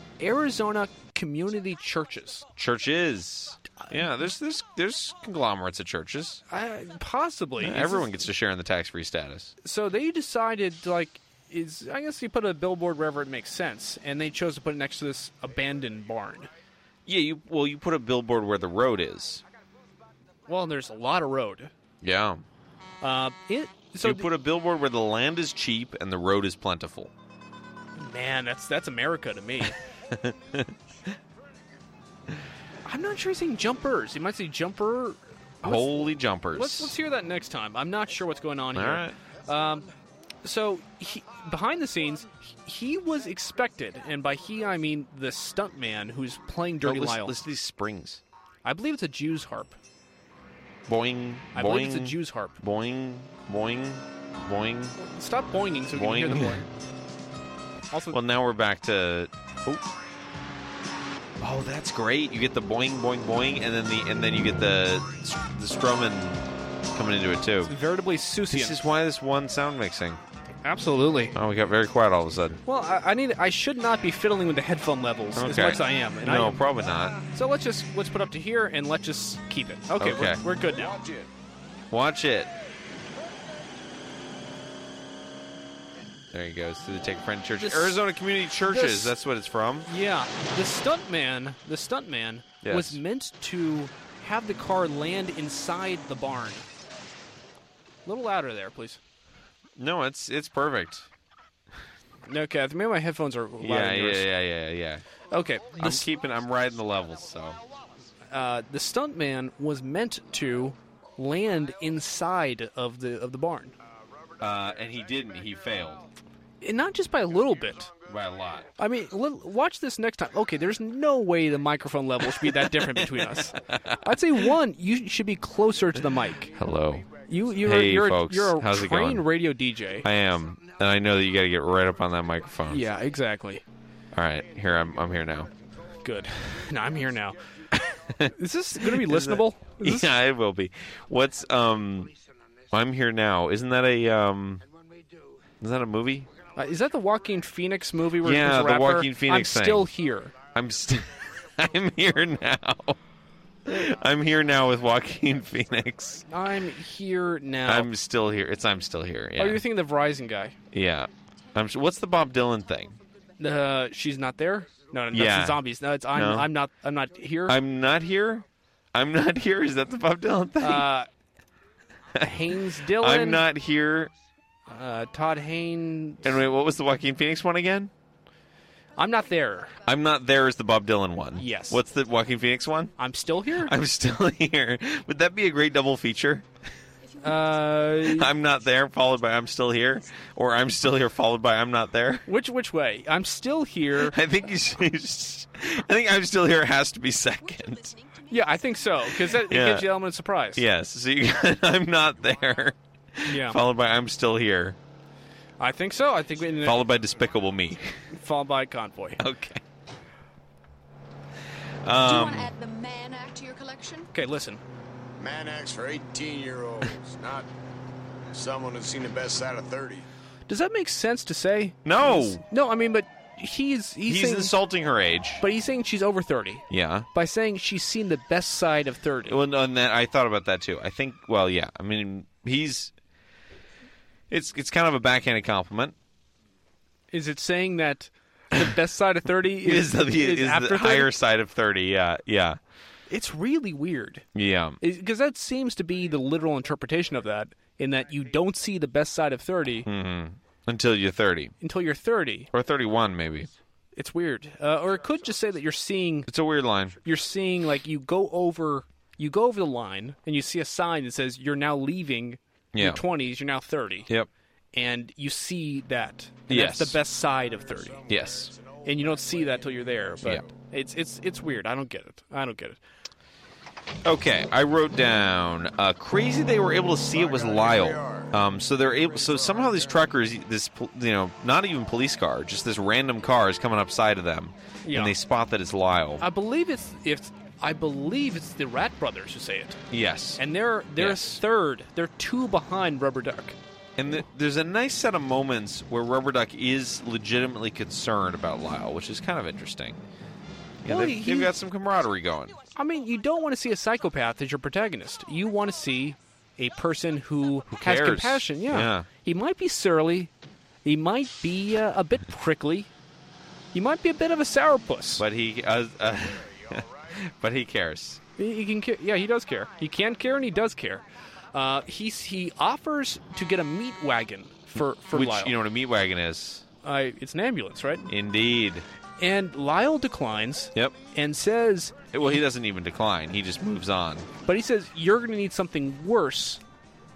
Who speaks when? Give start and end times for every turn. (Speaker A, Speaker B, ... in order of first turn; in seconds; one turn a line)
Speaker A: 0.2-2.5
Speaker B: 2.5-6.4
Speaker A: 6.5-8.2
Speaker B: 7.6-9.5
Speaker A: 9.6-16.5
Speaker B: 17.1-19.4
Speaker A: 20.5-21.7
Speaker B: 22.0-22.4
Speaker A: 23.0-24.3
Speaker B: 24.0-27.1
Speaker A: 27.9-29.8
Speaker B: 29.6-30.7
Speaker A: 32.9-39.9
Speaker B: 35.6-36.9
Speaker B: 38.7-39.1
Speaker A: 40.4-47.4
Speaker B: 46.8-48.2
Speaker A: 48.6-49.8
Speaker B: 50.9-55.0
Speaker A: 51.5-52.6
Speaker A: 55.0-56.7
Speaker B: 55.9-56.6
Speaker A: 57.9-58.2
Speaker B: 58.1-59.8
Speaker B: 61.4-66.4
Speaker B: 66.9-67.7
Speaker A: 67.7-68.8
Speaker B: 68.5-70.2
Speaker A: 70.6-71.3
Speaker B: 71.3-72.6
Speaker A: 72.6-76.6
Speaker B: 75.3-77.2
Speaker A: 77.3-81.0
Speaker B: 80.0-80.4
Speaker C: 80.6-81.3
Speaker B: 81.9-82.5
Speaker B: 86.3-89.9
Speaker A: 87.6-88.0
Speaker A: 88.7-89.2
Speaker A: 89.9-96.7
Speaker B: 92.6-93.0
Speaker A: 98.0-99.0
Speaker B: 99.8-101.1
Speaker A: 102.2-104.3
Speaker B: 103.6-105.0
Speaker A: 105.3-106.0
Speaker B: 105.8-107.6
Speaker C: 107.6-107.9
Speaker A: 108.3-113.7
Speaker C: 113.9-116.0
Speaker B: 114.4-116.0
Speaker A: 116.6-117.9
Speaker C: 117.4-118.4
Speaker B: 118.1-118.7
Speaker A: 118.8-126.5
Speaker B: 122.3-124.0
Speaker C: 126.3-127.5
Speaker B: 126.5-127.0
Speaker A: 127.3-130.1
Speaker B: 127.6-129.3
Speaker B: 130.0-132.8
Speaker A: 132.7-133.6
Speaker B: 134.1-135.5
Speaker C: 134.3-138.0
Speaker A: 136.0-137.4
Speaker B: 137.7-142.1
Speaker A: 138.3-140.1
Speaker B: 142.7-144.6
Speaker B: 145.6-146.3
Speaker A: 146.6-150.3
Speaker B: 148.2-149.9
Speaker C: 150.3-152.1
Speaker B: 150.5-153.0
Speaker B: 153.7-156.2
Speaker C: 154.6-156.1
Speaker A: 156.3-157.9
Speaker B: 157.7-159.6
Speaker A: 159.4-160.6
Speaker B: 160.7-162.9
Speaker A: 163.4-167.6
Speaker B: 165.1-165.6
Speaker B: 166.1-166.5
Speaker B: 167.5-170.9
Speaker A: 170.6-171.1
Speaker A: 172.2-173.4
Speaker B: 172.9-174.1
Speaker A: 174.7-176.3
Speaker B: 176.2-177.9
Speaker A: 178.9-179.8
Speaker B: 179.8-182.9
Speaker A: 181.3-181.8
Speaker A: 183.0-183.7
Speaker B: 183.6-186.4
Speaker A: 187.2-188.3
Speaker D: 187.5-188.0
Speaker B: 188.0-192.2
Speaker A: 192.2-194.2
Speaker B: 194.1-198.0
Speaker A: 198.3-200.6
Speaker B: 199.2-199.9
Speaker B: 200.5-204.8
Speaker A: 203.2-203.6
Speaker A: 205.6-206.9
Speaker B: 206.6-208.0
Speaker A: 208.1-209.2
Speaker B: 209.2-209.6
Speaker B: 211.8-212.5
Speaker D: 212.1-214.1
Speaker A: 214.1-214.6
Speaker C: 215.2-217.5
Speaker C: 218.3-220.1
Speaker A: 220.5-224.6
Speaker B: 221.8-222.4
Speaker B: 224.1-225.4
Speaker A: 225.4-229.4
Speaker B: 226.7-227.1
Speaker B: 229.3-232.9
Speaker B: 234.3-235.9
Speaker A: 237.1-241.1
Speaker B: 239.6-242.6
Speaker A: 243.1-244.3
Speaker B: 244.3-244.8
Speaker A: 244.8-249.9
Speaker B: 249.8-251.5
Speaker A: 251.6-252.5
Speaker B: 252.5-253.5
Speaker A: 253.9-256.3
Speaker B: 256.3-257.0
Speaker A: 257.0-264.1
Speaker B: 262.7-263.0
Speaker A: 264.7-268.0
Speaker B: 266.5-267.0
Speaker C: 267.2-270.5
Speaker B: 268.1-268.5
Speaker A: 268.8-272.8
Speaker B: 274.0-286.2
Speaker C: 277.1-280.1
Speaker A: 284.8-285.1
Speaker A: 286.2-289.8
Speaker B: 289.9-290.4
Speaker A: 290.4-293.6
Speaker B: 291.0-291.4
Speaker B: 294.0-300.0
Speaker B: 300.8-302.6
Speaker A: 300.9-301.5
Speaker A: 302.7-310.3
Speaker B: 307.7-309.1
Speaker A: 310.8-312.9
Speaker A: 313.7-315.2
Speaker B: 315.2-318.2
Speaker C: 316.2-317.2
Speaker A: 318.4-325.6
Speaker B: 324.8-326.6
Speaker A: 326.8-328.1
Speaker B: 328.1-328.9
Speaker A: 329.2-332.0
Speaker B: 332.1-334.3
Speaker A: 334.4-336.6